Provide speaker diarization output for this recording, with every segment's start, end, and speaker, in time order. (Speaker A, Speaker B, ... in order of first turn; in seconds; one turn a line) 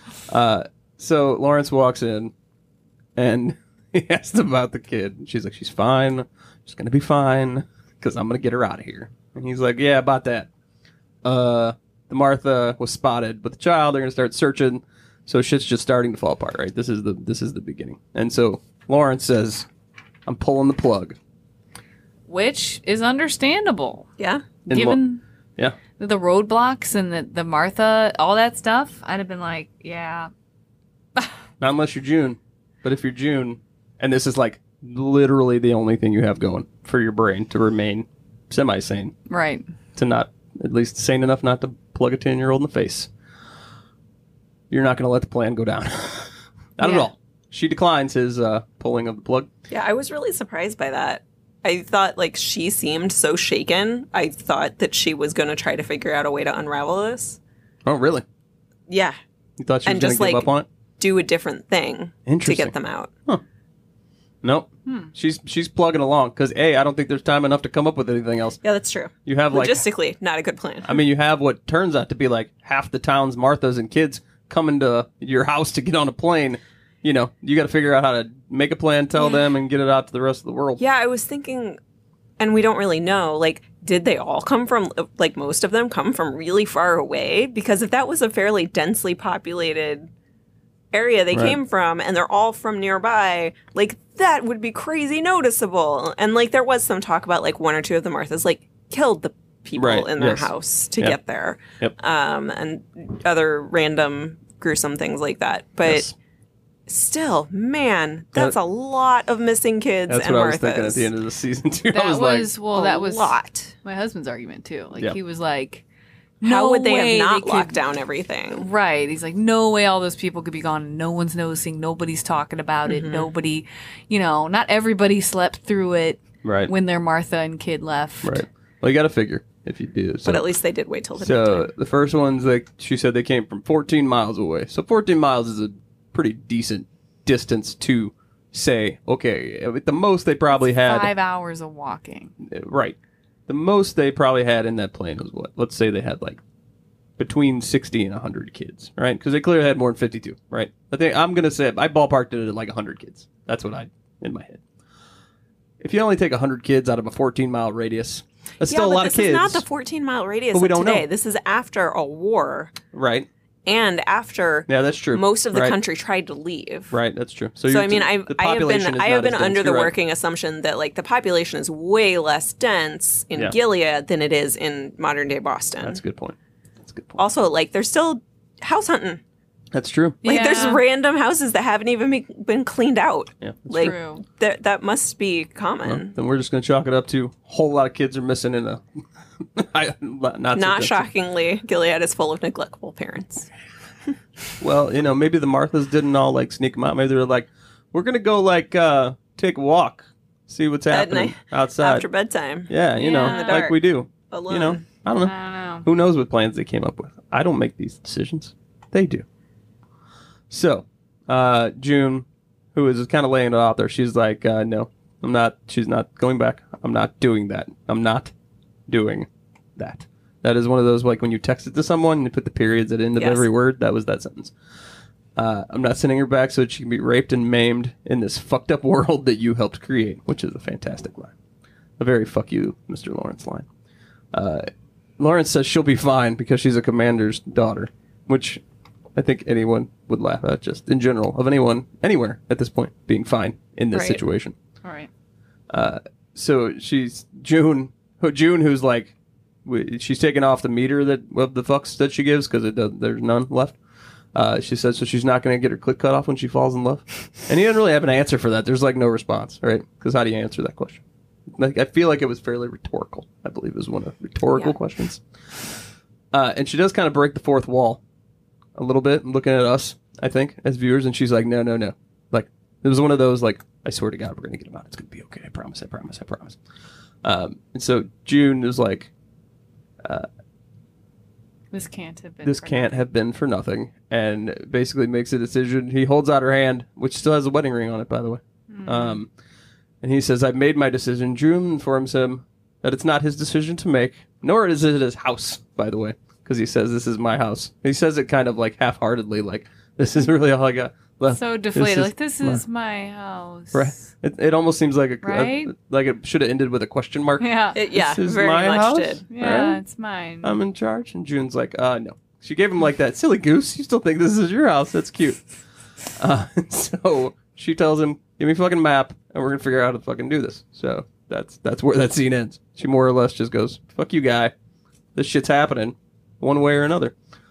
Speaker A: 0.3-2.3
Speaker A: 3.1-10.5
Speaker A: 11.2-19.7
Speaker A: 20.3-21.1
Speaker B: 22.3-24.1
Speaker C: 24.2-24.5
Speaker A: 24.7-25.0
Speaker B: 24.7-25.2
Speaker B: 26.0-30.3
Speaker A: 31.6-39.1
Speaker B: 39.3-39.6
Speaker A: 40.0-43.1
Speaker A: 44.7-49.5
Speaker B: 46.8-47.1
Speaker C: 49.7-57.4
Speaker A: 57.8-58.2
Speaker C: 58.9-59.2
Speaker A: 59.6-60.7
Speaker C: 59.8-63.1
Speaker A: 62.3-62.7
Speaker A: 64.4-68.6
Speaker B: 64.9-65.1
Speaker C: 68.6-71.0
Speaker A: 69.3-69.8
Speaker A: 70.8-80.8
Speaker C: 80.8-81.8
Speaker C: 82.4-90.1
Speaker C: 90.9-106.1
Speaker A: 91.3-91.6
Speaker A: 99.8-101.2
Speaker A: 105.8-106.1
Speaker C: 106.9-111.1
Speaker A: 110.1-112.5
Speaker B: 111.9-115.8
Speaker C: 112.7-113.7
Speaker B: 116.4-117.8
Speaker C: 116.4-118.7
Speaker B: 118.6-128.4
Speaker C: 122.9-123.3
Speaker A: 126.4-126.7
Speaker A: 128.2-130.5
Speaker C: 130.2-131.7
Speaker A: 131.2-141.1
Speaker B: 140.5-142.3
Speaker A: 142.4-142.9
Speaker A: 143.5-146.4
Speaker A: 147.2-154.6
Speaker A: 155.8-159.6
Speaker C: 158.6-162.7
Speaker A: 160.5-161.1
Speaker A: 162.9-163.3
Speaker C: 163.7-166.9
Speaker A: 164.7-165.8
Speaker A: 166.9-169.9
Speaker C: 167.7-176.0
Speaker A: 175.8-177.2
Speaker C: 177.2-179.2
Speaker A: 179.7-180.2
Speaker B: 180.2-180.8
Speaker C: 180.2-186.1
Speaker A: 183.4-183.9
Speaker B: 183.7-184.2
Speaker A: 185.8-191.1
Speaker C: 190.6-193.5
Speaker A: 194.6-202.1
Speaker C: 200.9-204.8
Speaker A: 202.7-209.2
Speaker B: 203.0-203.6
Speaker B: 205.2-205.9
Speaker A: 210.5-218.3
Speaker A: 218.9-224.5
Speaker C: 223.2-223.5
Speaker A: 225.4-231.3
Speaker A: 232.0-233.7
Speaker A: 234.3-234.7
Speaker A: 235.2-238.6
Speaker A: 239.1-244.6
Speaker C: 243.9-244.2
Speaker B: 244.8-245.1
Speaker A: 245.7-249.1
Speaker A: 249.6-253.8
Speaker A: 254.3-265.2
Speaker A: 266.3-268.0
Speaker A: 268.8-276.6
Speaker A: 277.2-279.1
Speaker B: 281.7-283.0
Speaker A: 282.4-289.3
Speaker B: 288.7-289.2
Speaker A: 290.0-302.6
Speaker B: 301.3-304.1
Speaker A: 303.7-309.8
Speaker B: 305.2-305.7
Speaker B: 307.4-307.8
Speaker C: 307.7-309.3
Speaker B: 309.3-310.6
Speaker A: 310.4-315.4
Speaker A: 316.1-324.5
Speaker A: 325.1-327.1